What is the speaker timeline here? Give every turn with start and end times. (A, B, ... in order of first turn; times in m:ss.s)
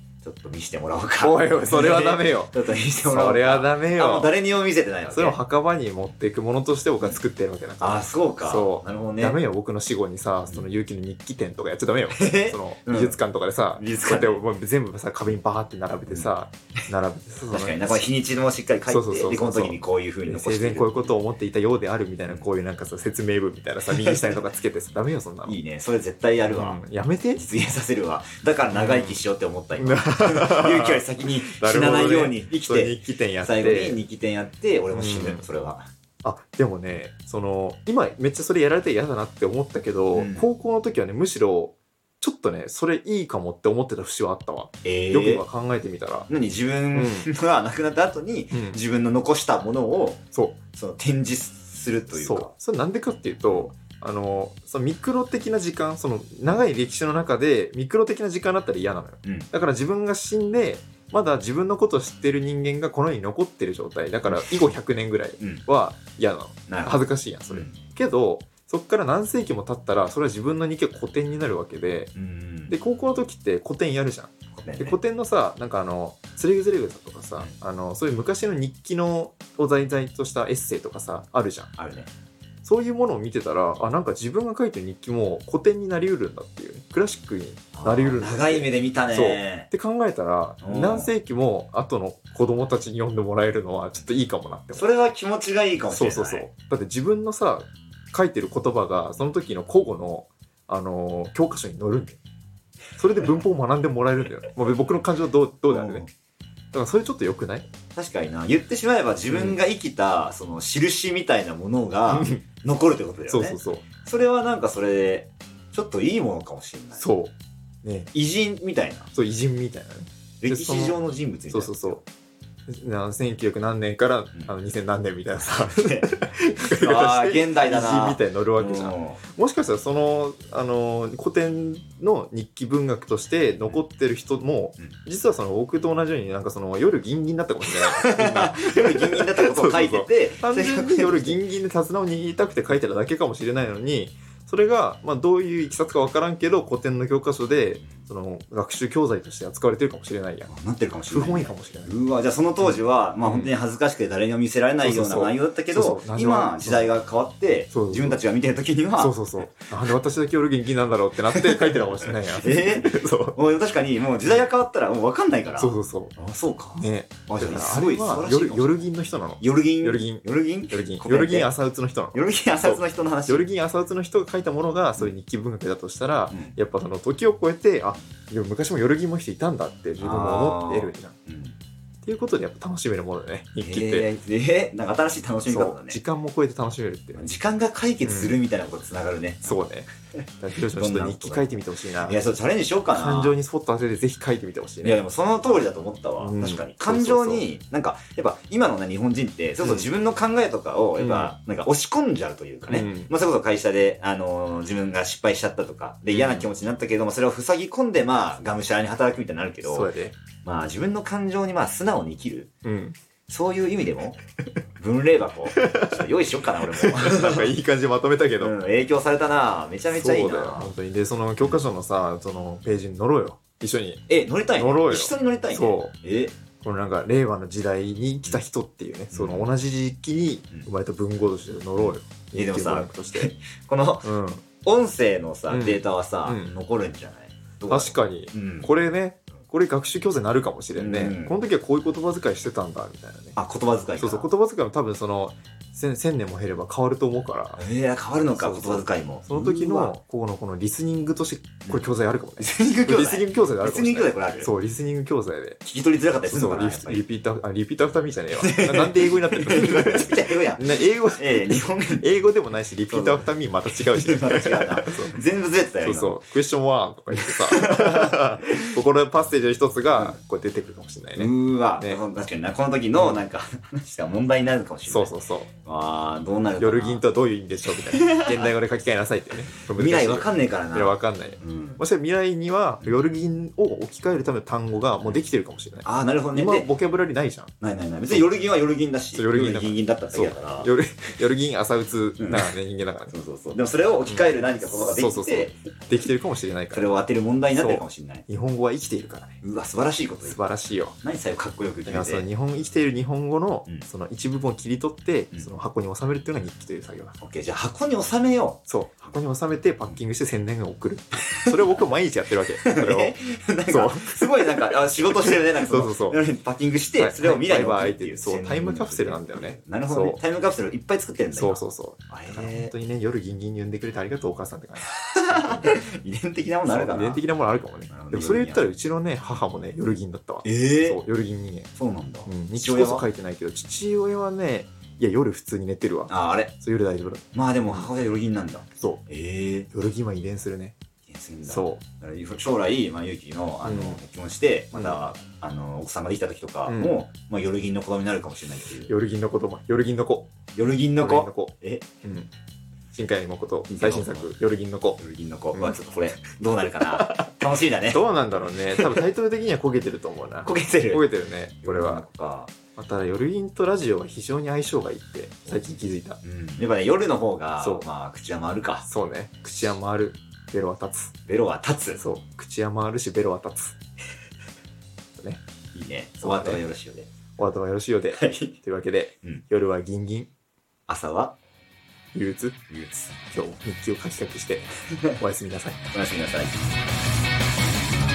0:00.2-0:05.4 A
0:01.2-0:04.3 B
0:05.1-0:18.0 B
0:07.8-0:09.4 A
0:12.1-0:13.2 A
0:13.8-0:14.4 A
0:17.5-0:21.1 A
0:18.9-0:25.6 B
0:23.8-0:24.4 A
0:25.4-0:26.8 A
0:26.5-0:27.7 B
0:27.4-0:35.8 A
0:28.7-0:29.2 B
0:29.8-0:34.0 B
0:34.9-0:35.4 B
0:36.2-0:46.3 B
0:40.1-0:40.4 A
0:44.8-0:45.4 A
0:46.3-0:50.2 A
0:46.9-0:47.3 B
0:48.5-0:48.8 B
0:50.7-0:52.5 A
0:52.2-1:12.1 B
0:59.2-0:59.5 A
1:04.3-1:04.7 A
1:06.7-1:07.8 A
1:12.1-1:12.7 A
1:12.7-1:21.7 B
1:14.5-1:15.0 A
1:21.8-1:22.1 A
1:22.6-1:34.9 B
1:27.7-1:29.7 A
1:30.6-1:31.1 A
1:34.7-1:36.5 A
1:35.9-1:42.2 B
1:43.0-1:46.1 B
1:45.7-1:46.1 A
1:46.7-1:47.6 B
1:47.9-1:57.0 A
1:49.3-1:49.6 B
1:52.1-1:52.4 B
1:53.3-1:53.8 B
1:57.0-1:57.3 B
1:57.8-1:58.1 B
1:58.1-1:59.1 A
1:59.1-2:01.0 B
2:00.4-2:02.0 A
2:01.5-2:02.0 B
2:02.7-2:30.5 B
2:05.7-2:06.1 A
2:06.7-2:09.2 A
2:17.6-2:21.4 A
2:30.5-2:39.2 A
2:31.1-2:31.9 B
2:32.6-2:33.5 B
2:34.8-2:36.9 B
2:37.7-2:38.2 B
2:39.0-2:43.4 B
2:41.4-2:51.5 A
2:45.6-2:46.1 B
2:46.7-3:01.1 B
2:52.1-2:53.5 A
2:56.3-2:56.6 A
3:00.0-3:01.6 A
3:02.0-3:04.1 B
3:03.6-3:06.0 A
3:05.4-3:07.3 B
3:07.2-3:09.6 A
3:08.0-3:08.4 B
3:09.4-3:09.9 B
3:10.1-3:13.4 A
3:10.4-3:12.2 B
3:12.9-3:15.0 B
3:14.8-3:29.9 A
3:16.2-3:17.4 B
3:21.0-3:21.3 B
3:22.7-3:23.1 B
3:26.1-3:26.5 B
3:29.6-3:30.2 B
3:30.4-3:32.5 A
3:32.6-3:33.0 B
3:33.3-3:34.2 A
3:34.8-3:37.5 A
3:35.5-3:36.0 B
3:36.8-3:38.5 B
3:38.4-3:40.7 A
3:39.9-3:45.9 B
3:44.1-3:46.3 A
3:46.6-3:53.3 B
3:49.1-3:49.5 A
3:51.8-3:54.1 A
3:54.0-3:54.4 B
3:54.6-3:58.7 A
3:55.5-3:56.5 B
3:57.7-4:03.4 B
4:00.7-4:01.3 A
4:03.3-4:04.3 A
4:04.0-4:07.6 B
4:07.6-4:10.0 A
4:08.3-4:15.6 B
4:12.4-4:14.5 A
4:15.6-4:17.0 A
4:16.2-4:25.2 B
4:18.4-4:22.0 A
4:22.9-4:26.2 A
4:25.8-4:32.0 B
4:27.2-4:28.8 A
4:31.2-4:35.1 A
4:33.0-4:33.2 B
4:34.9-4:35.5 B
4:35.6-4:37.0 A
4:36.6-4:47.5 B
4:37.9-4:38.5 A
4:39.7-4:41.8 A
4:45.8-4:46.7 A
4:47.6-4:50.7 A
4:49.1-4:53.1 B
4:52.2-4:52.5 A
4:53.1-4:55.6 A
4:54.1-4:56.9 B
4:56.7-4:58.2 A
4:57.5-4:59.4 B
4:59.4-5:00.4 A
5:00.2-5:01.0 B
5:01.0-5:02.2 A
5:01.8-5:07.2 B
5:07.2-5:08.6 A
5:08.7-5:13.2 B
5:11.5-5:11.8 A
5:12.6-5:22.7 A
5:13.7-5:16.2 B
5:17.0-5:20.2 B
5:21.3-5:25.8 B
5:25.1-5:27.2 A
5:26.6-5:31.7 B
5:27.9-5:28.6 A
5:30.4-5:31.0 A
5:31.8-5:33.0 A
5:32.2-5:37.9 B
5:36.1-5:36.5 A
5:37.3-5:39.7 A
5:39.7-5:40.7 B
5:41.1-5:48.9 A
5:41.4-5:41.8 B
5:43.6-5:44.0 B
5:44.7-5:45.1 B
5:46.7-5:47.0 B
5:48.9-5:50.3 B
5:50.5-5:51.8 A
5:51.0-5:52.3 B
5:52.9-5:55.0 B
5:53.7-5:54.3 A
5:55.0-5:59.0 A
5:55.5-5:55.8 B
5:56.7-6:02.0 B
6:00.4-6:01.1 A
6:01.6-6:02.5 A
6:02.8-6:06.2 B
6:06.2-6:08.8 A
6:07.6-6:07.8 B
6:08.8-6:11.1 B
6:11.2-6:12.0 A
6:12.0-6:13.8 B
6:15.7-6:17.1 A
6:16.2-6:16.7 B
6:17.4-6:20.3 B
6:18.1-6:18.6 A
6:20.9-6:21.4 A
6:22.1-6:22.6 B
6:22.7-6:23.1 A
6:23.2-6:25.8 B
6:25.9-6:26.6 A